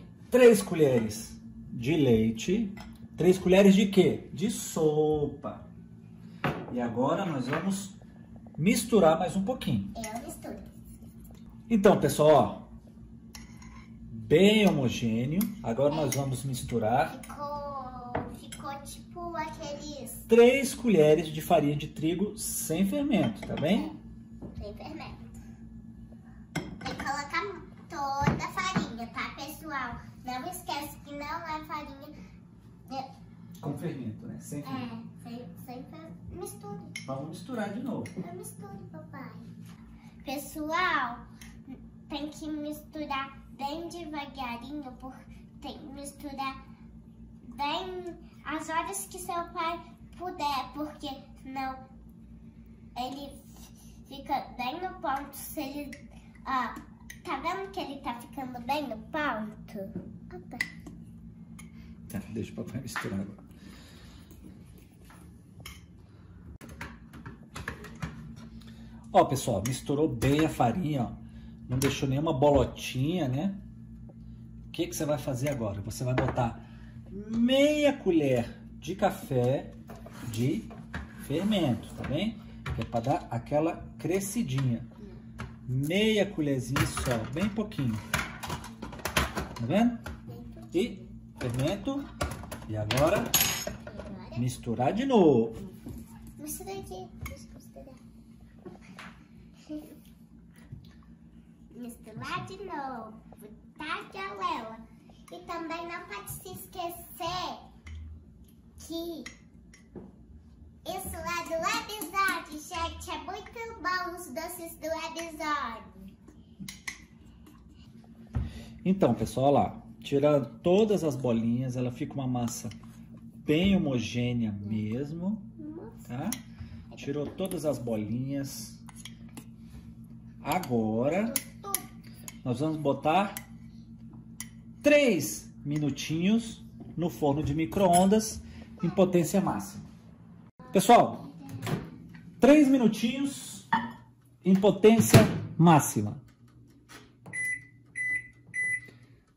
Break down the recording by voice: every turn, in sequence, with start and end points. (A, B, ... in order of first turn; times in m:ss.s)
0:00.3-0:05.6 A
0:06.7-0:08.0 A
0:08.6-0:09.9 A
0:09.9-0:10.7 B
0:11.7-0:12.7 A
0:14.1-0:17.1 A
0:15.9-0:16.2 B
0:17.1-0:20.3 B
0:20.3-0:23.9 A
0:23.6-0:24.0 B
0:24.6-0:25.3 B
0:26.8-0:32.1 B
0:33.6-0:34.9 A
0:34.6-0:37.0 B
0:37.0-0:38.1 A
0:38.2-0:39.4 B
0:40.2-0:46.6 B
0:47.4-0:51.8 B
0:52.9-1:00.6 B
1:02.1-1:03.4 A
1:09.1-1:13.6 A
1:14.7-1:24.9 A
1:25.6-1:28.0 A
1:29.6-1:30.0 A
1:30.3-1:31.0 B
1:30.7-1:32.1 A
1:32.7-1:33.3 A
1:33.8-1:34.4 B
1:34.4-1:35.6 A
1:36.4-1:38.0 B
1:41.7-1:47.6 B
1:48.8-1:49.3 B
1:50.8-1:56.0 B
1:58.8-2:02.7 A
2:03.4-2:05.5 A
2:05.6-2:06.1 B
2:06.1-2:06.4 A
2:06.9-2:08.8 A
2:10.4-2:11.4 A
2:11.2-2:11.9 B
2:12.4-2:13.4 A
2:14.8-2:19.8 A
2:20.7-2:21.3 A
2:22.4-2:23.7 A
2:24.4-2:26.2 A